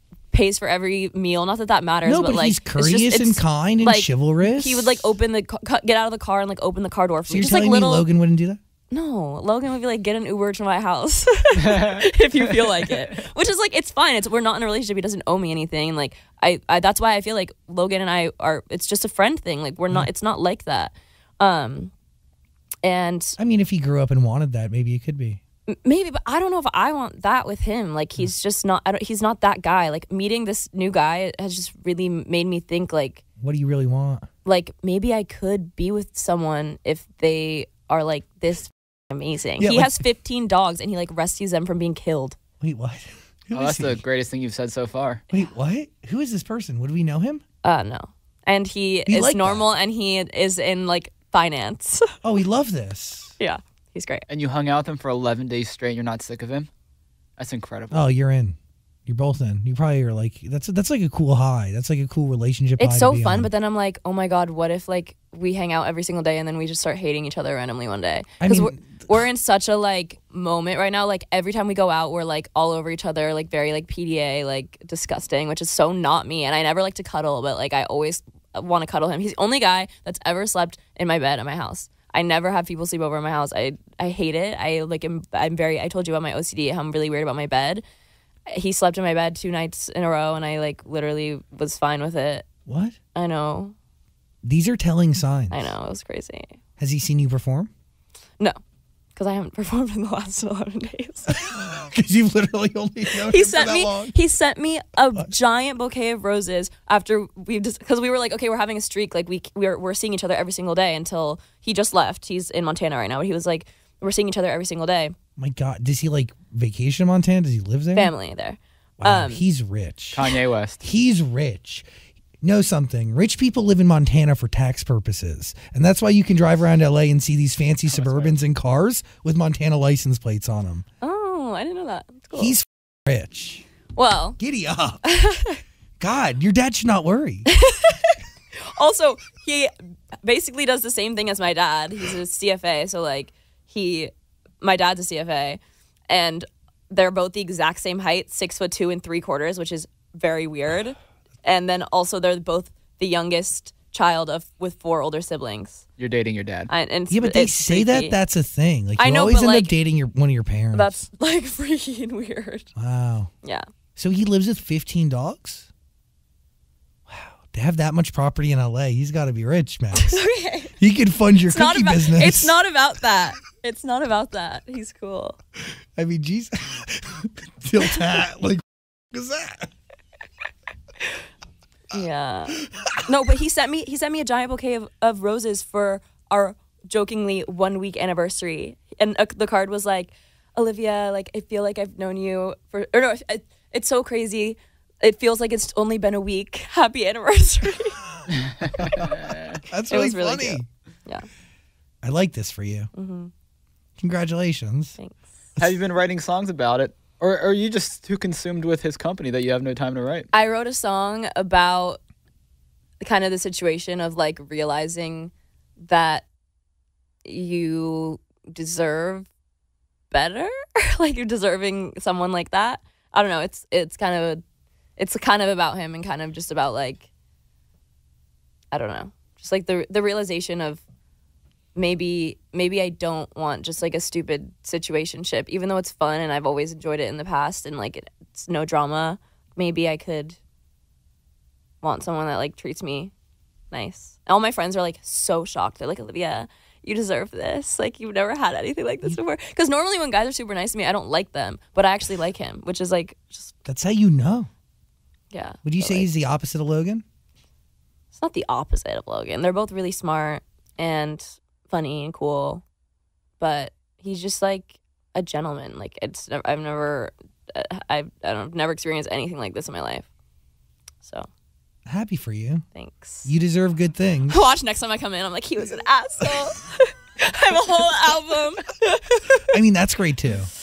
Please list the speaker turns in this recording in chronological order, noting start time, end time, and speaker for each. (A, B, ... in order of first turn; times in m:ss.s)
0:00.3-0:08.1 A
0:02.0-0:05.1 B
0:07.3-0:08.6 B
0:08.9-0:21.9 A
0:11.6-0:12.0 C
0:22.8-0:23.4 A
0:23.4-0:25.4 B
0:25.7-0:33.2 A
0:33.4-0:34.3 B
0:34.4-0:42.4 A
0:39.6-0:40.0 B
0:42.6-0:44.0 B
0:43.5-0:45.2 C
0:45.3-0:47.4 B
0:47.6-0:52.1 A
0:49.1-0:49.6 B
0:52.2-0:53.3 B
0:53.4-0:54.2 A
0:54.3-0:56.7 C
0:57.4-0:58.0 C
0:57.9-0:58.6 B
0:59.1-1:03.5 B
1:02.8-1:27.8 A
1:08.4-1:09.1 B
1:28.5-1:32.5 A
1:32.7-1:33.0 B
1:33.1-1:33.7 A
1:34.4-1:35.7 B
1:35.5-1:36.6 A
1:36.8-1:37.7 B
1:39.1-1:41.4 A
1:41.5-1:44.1 B
1:43.1-1:55.1 A
1:55.4-1:58.1 B
1:57.9-1:59.4 A
1:59.0-2:00.3 B
2:00.1-2:00.8 C
2:00.8-2:01.8 B
2:02.4-2:10.8 B
2:07.9-2:08.3 C
2:11.0-2:12.6 A
2:12.3-2:13.6 B
2:14.0-2:14.4 A
2:14.4-2:15.0 B
2:15.0-2:15.6 A
2:16.0-2:17.5 B
2:17.5-2:35.8 A
2:36.0-2:36.7 C
2:36.7-2:38.2 A
2:37.1-2:41.0 B
2:39.0-2:39.7 A
2:40.7-2:42.7 A
2:42.8-2:43.3 B
2:44.0-2:45.7 B
2:47.1-2:50.2 B
2:50.0-2:50.7 A
2:50.8-2:52.6 B
2:51.4-2:55.4 A
2:56.0-2:59.7 B
3:01.9-3:18.0 A
3:18.3-3:19.6 C
3:19.6-3:20.6 B
3:19.9-3:21.3 A
3:22.0-3:22.9 B
3:22.9-3:23.3 A
3:24.0-3:25.0 B
3:25.6-3:30.3 C
3:30.3-3:32.0 A
3:33.0-3:36.2 A
3:37.2-3:39.3 A
3:40.1-3:44.4 A
3:45.0-3:47.1 A
3:48.7-3:50.8 A
3:51.8-4:00.4 A
4:01.8-4:03.1 A
4:03.7-4:13.5 A
4:13.6-4:14.5 B
4:15.3-4:16.1 A
4:15.6-4:17.0 B
4:18.1-4:22.6 A
4:23.4-4:30.1 A
4:31.0-4:31.3 A
4:31.9-4:32.6 B
4:32.7-4:33.3 A
4:33.2-4:34.4 B
4:34.3-4:39.5 A
4:39.4-4:40.5 B